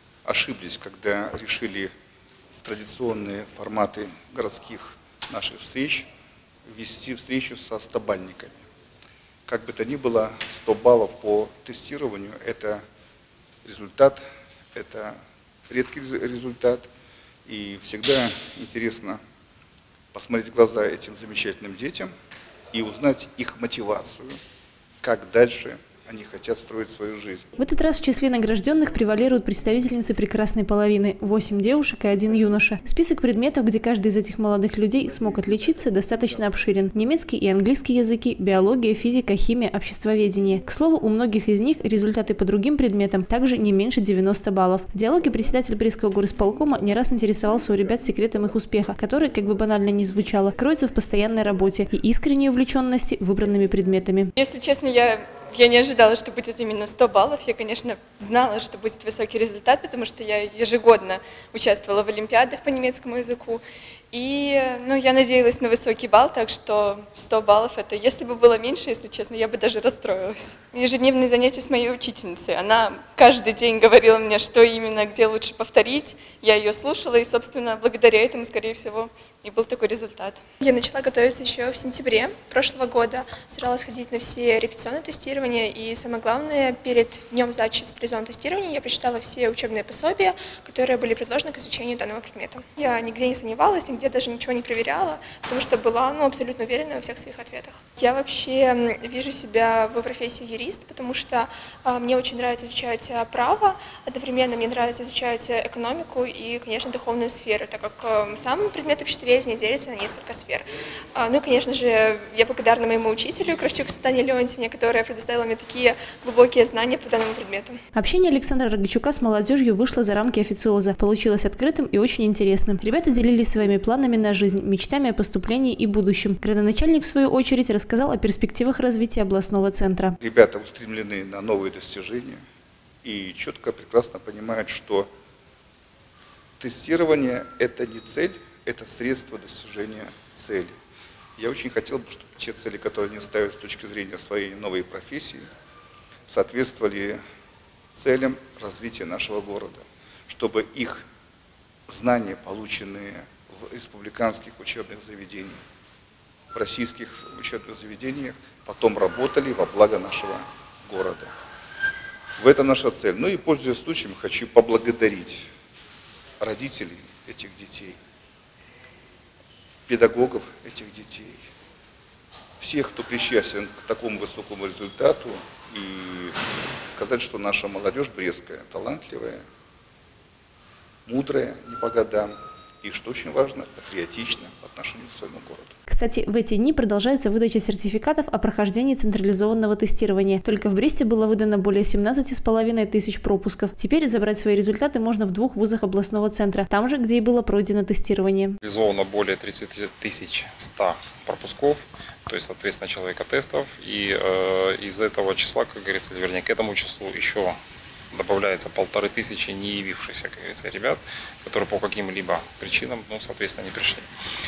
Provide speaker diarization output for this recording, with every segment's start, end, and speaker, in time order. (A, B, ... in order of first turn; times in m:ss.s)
0:00.2-0:01.9 A
0:02.6-0:06.1 A
0:06.7-0:08.6 A
0:09.5-0:12.8 A
0:13.6-0:15.2 A
0:15.7-0:16.9 A
0:17.5-0:19.2 A
0:20.1-0:22.1 A
0:22.7-0:24.4 A
0:25.0-0:27.5 A
0:27.6-0:54.3 B
0:54.4-1:03.6 C
0:57.0-1:00.9 D
1:01.5-1:02.8 D
1:04.1-1:20.4 C
1:07.3-1:12.6 D
1:13.2-1:13.5 D
1:14.3-1:14.6 D
1:20.6-1:57.8 D
1:58.0-2:10.2 B
2:10.2-2:12.4 A
2:13.0-2:15.1 A
2:16.6-2:20.8 A
2:21.4-2:25.5 A
2:26.3-2:27.2 A
2:28.0-2:31.1 A
2:31.9-2:35.6 A
2:36.5-2:41.3 A
2:42.4-2:45.5 A
2:46.4-2:48.0 A
2:49.9-2:51.4 A
2:52.6-2:59.4 A
3:01.1-3:05.7 A
3:05.9-3:18.6 B
3:18.6-3:27.6 E
3:28.1-3:34.1 E